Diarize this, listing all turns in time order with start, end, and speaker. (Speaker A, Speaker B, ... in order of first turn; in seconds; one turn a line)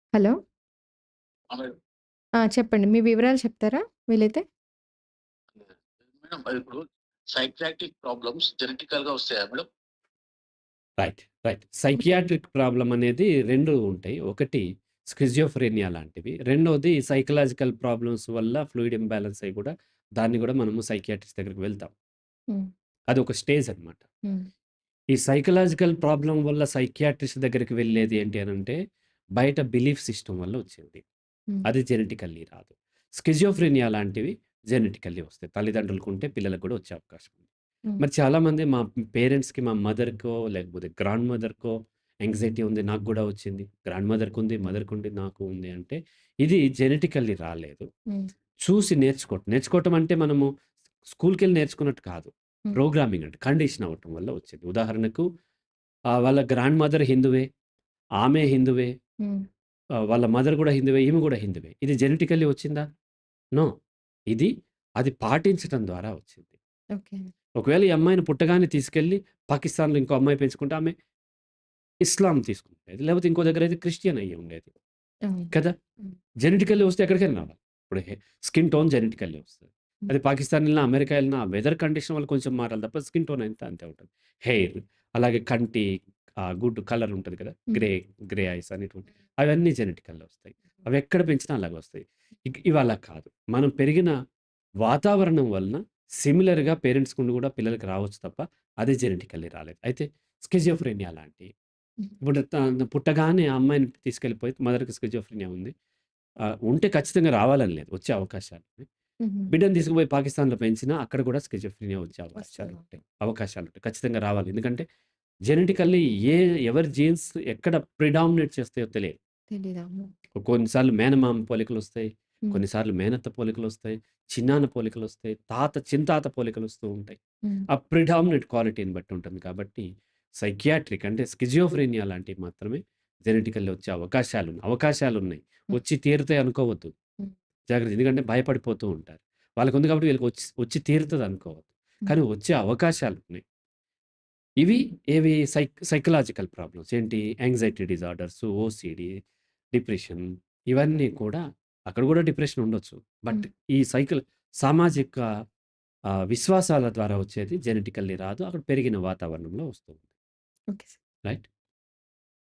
Speaker A: 1.5-1.8
Speaker B: 2.4-4.4
Speaker A: 5.5-9.7
Speaker C: 11.0-21.9
Speaker B: 11.9-12.2
Speaker C: 23.1-24.1
Speaker C: 25.1-28.8
Speaker C: 29.4-31.0
Speaker C: 31.6-37.5
Speaker C: 38.0-47.9
Speaker C: 48.6-50.5
Speaker C: 51.1-55.2
Speaker C: 56.1-57.5
Speaker C: 58.2-58.9
Speaker C: 60.1-62.8
Speaker C: 64.3-66.6
Speaker B: 67.0-67.3
Speaker C: 67.6-70.9
Speaker C: 72.0-74.7
Speaker B: 75.3-75.5
Speaker C: 76.4-85.9
Speaker C: 86.4-94.1
Speaker C: 94.8-101.5
Speaker C: 102.2-105.7
Speaker C: 106.6-108.9
Speaker B: 109.2-109.5
Speaker C: 109.5-114.8
Speaker B: 112.4-112.8
Speaker C: 115.5-119.2
Speaker B: 119.5-120.1
Speaker C: 120.4-127.2
Speaker C: 127.7-129.9
Speaker C: 130.4-136.9
Speaker C: 137.7-143.4
Speaker C: 144.6-149.2
Speaker C: 149.7-155.2
Speaker C: 156.3-160.0
Speaker B: 160.7-161.0